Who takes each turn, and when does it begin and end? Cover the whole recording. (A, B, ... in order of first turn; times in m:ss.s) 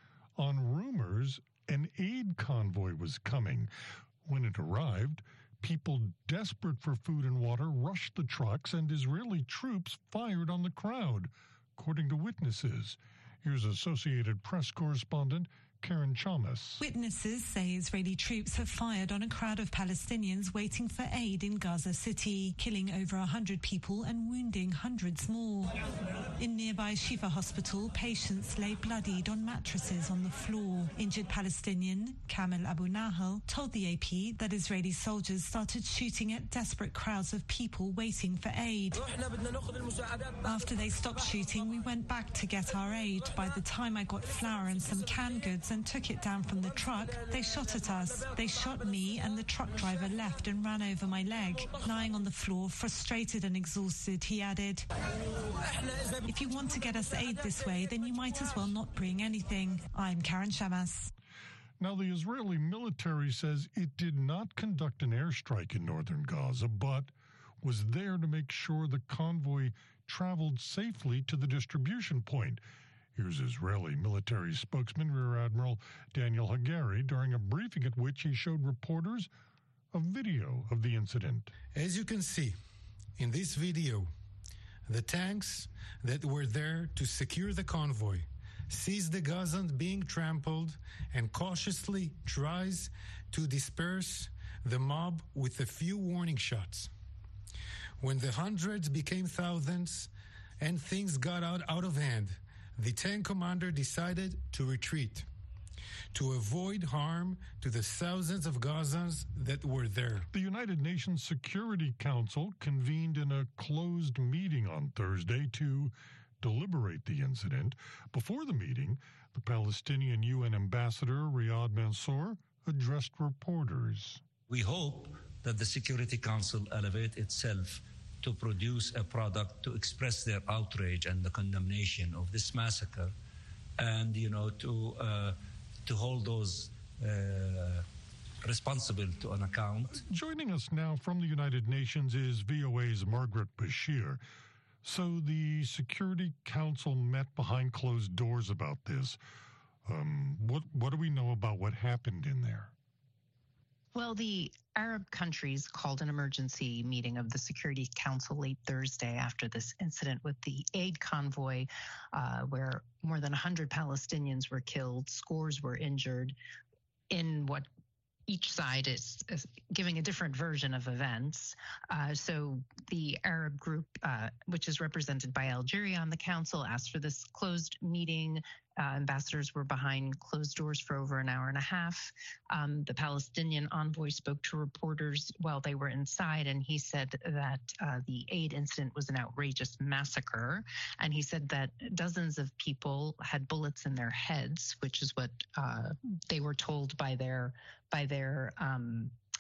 0:00.4-0:03.7 A
0:04.2-0:16.8 A
0:16.8-0:25.8 B
0:26.4-0:39.1 B
0:40.4-0:54.9 B
0:56.2-1:01.1 B
1:01.8-1:12.6 A
1:13.2-1:19.3 A
1:19.9-1:21.5 A
1:21.8-1:22.6 C
1:23.2-1:24.1 C
1:24.9-1:36.9 C
1:38.0-1:45.3 C
1:46.1-1:50.3 C
1:50.3-2:04.2 A
2:04.5-2:13.1 D
2:13.8-2:17.8 D
2:18.4-2:20.0 D
2:20.0-2:24.2 A
2:24.8-2:29.2 A
2:29.9-2:32.7 A
2:33.9-2:46.4 E
2:47.1-2:47.7 E
2:48.3-3:19.2 E